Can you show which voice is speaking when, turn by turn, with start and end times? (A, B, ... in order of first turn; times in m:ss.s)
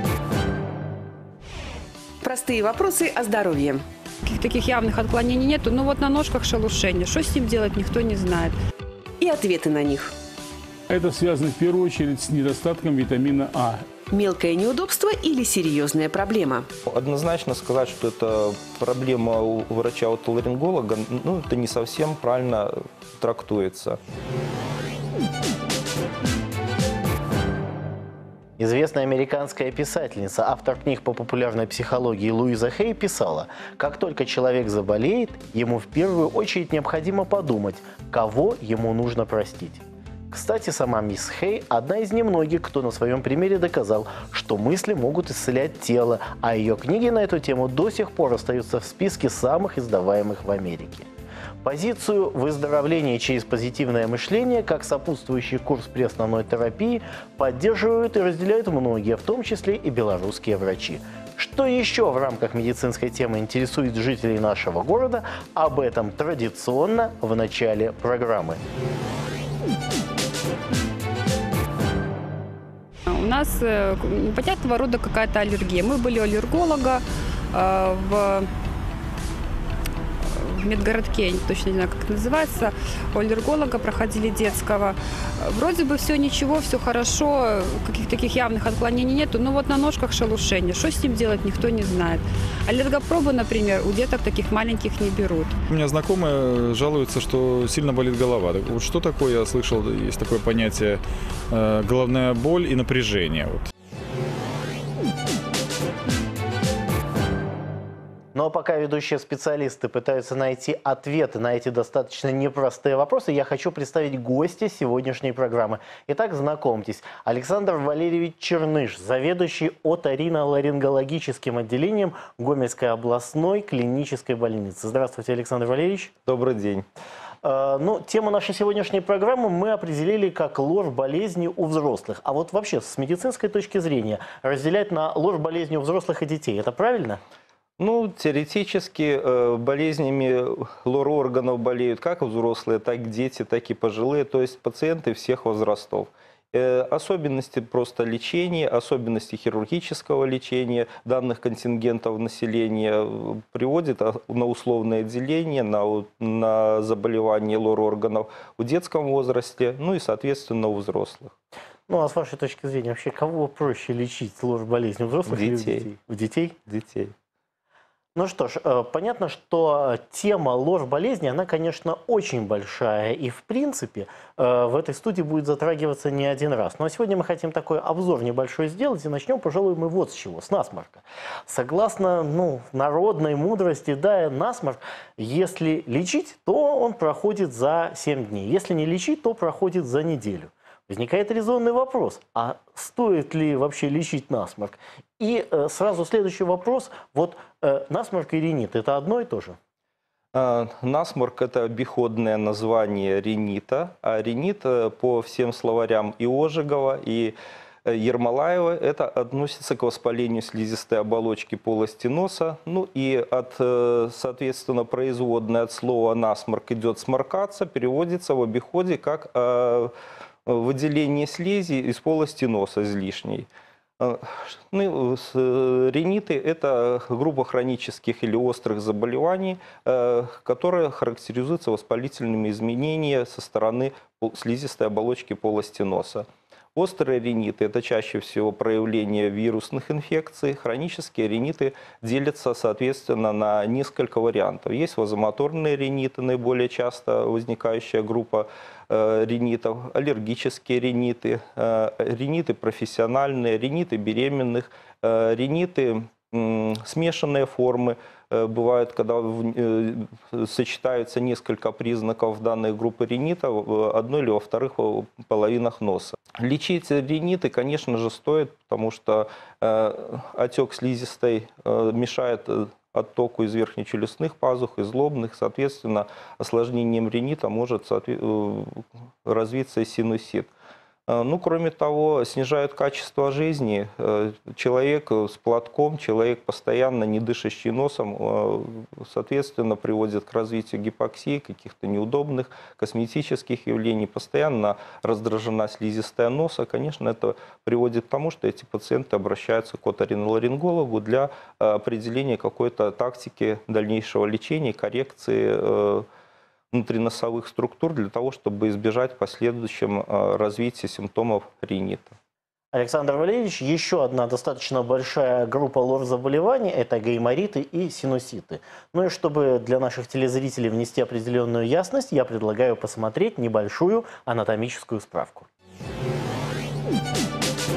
0:02.2-0:03.8 A
0:04.2-0:08.6 B
0:09.2-0:10.1 A
0:10.9-0:13.9 C
0:14.1-0:16.7 A
0:16.9-0:24.0 D
0:28.6-0:51.1 E
0:51.6-1:08.6 E
1:13.1-1:18.5 B
1:20.3-1:35.6 B
1:35.7-1:43.7 F
1:48.3-2:06.1 E
2:06.3-2:06.9 D
2:07.4-2:17.2 E
2:17.8-2:41.3 D
2:41.9-2:46.6 E
2:45.3-2:45.9 D
2:46.7-2:47.1 D
2:48.2-3:19.6 E
3:20.3-3:39.9 D
3:40.5-3:43.5 D
3:44.0-4:40.5 D
4:41.1-5:06.1 D
5:06.7-5:12.2 D
5:12.7-5:25.5 E